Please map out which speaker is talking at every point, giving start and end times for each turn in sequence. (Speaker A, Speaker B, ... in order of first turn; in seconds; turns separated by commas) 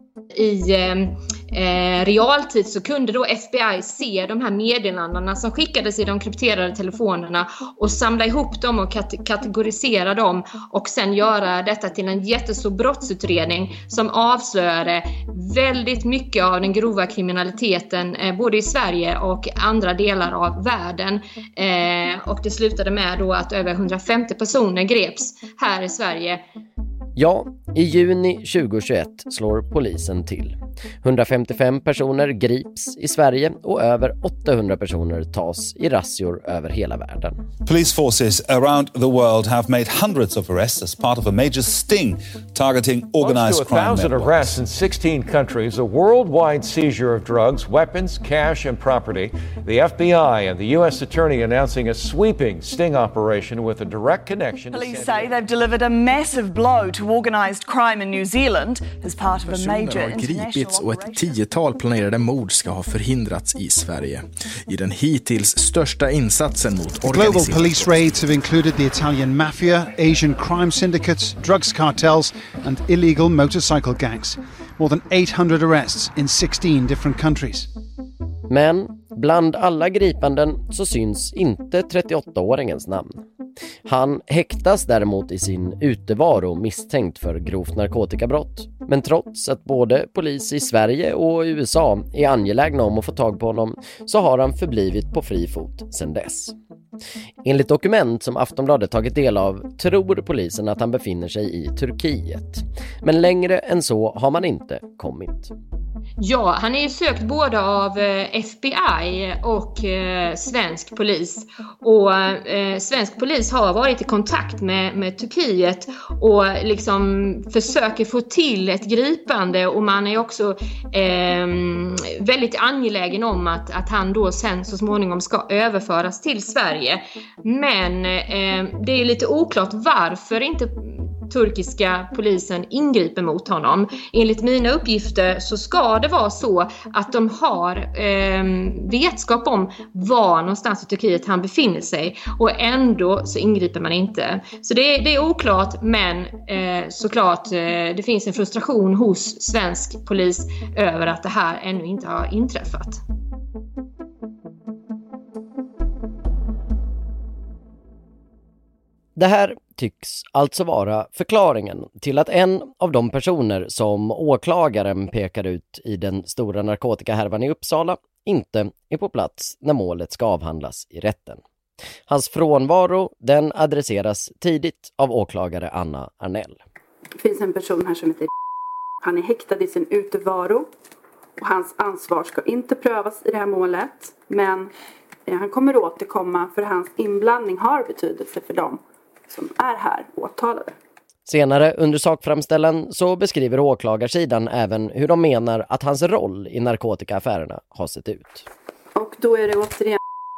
Speaker A: 0.3-26.4, Speaker B: 27.1-37.4, Speaker C: 37.6-44.5, Speaker D: 43.2-55.3, Speaker E: 54.7-61.2, Speaker F: 59.5-68.2, Speaker G: 67.1-77.7, Speaker B: 78.5-83.2, Speaker B: 83.8-96.5, Speaker B: 97.4-105.5, Speaker A: 106.2-153.0, Speaker B: 159.2-171.4, Speaker B: 172.1-176.6, Speaker H: 177.2-178.3, Speaker H: 179.0-180.7, Speaker H: 181.4-184.7, Speaker H: 185.3-190.7, Speaker B: 191.2-198.5, Speaker H: 198.9-200.0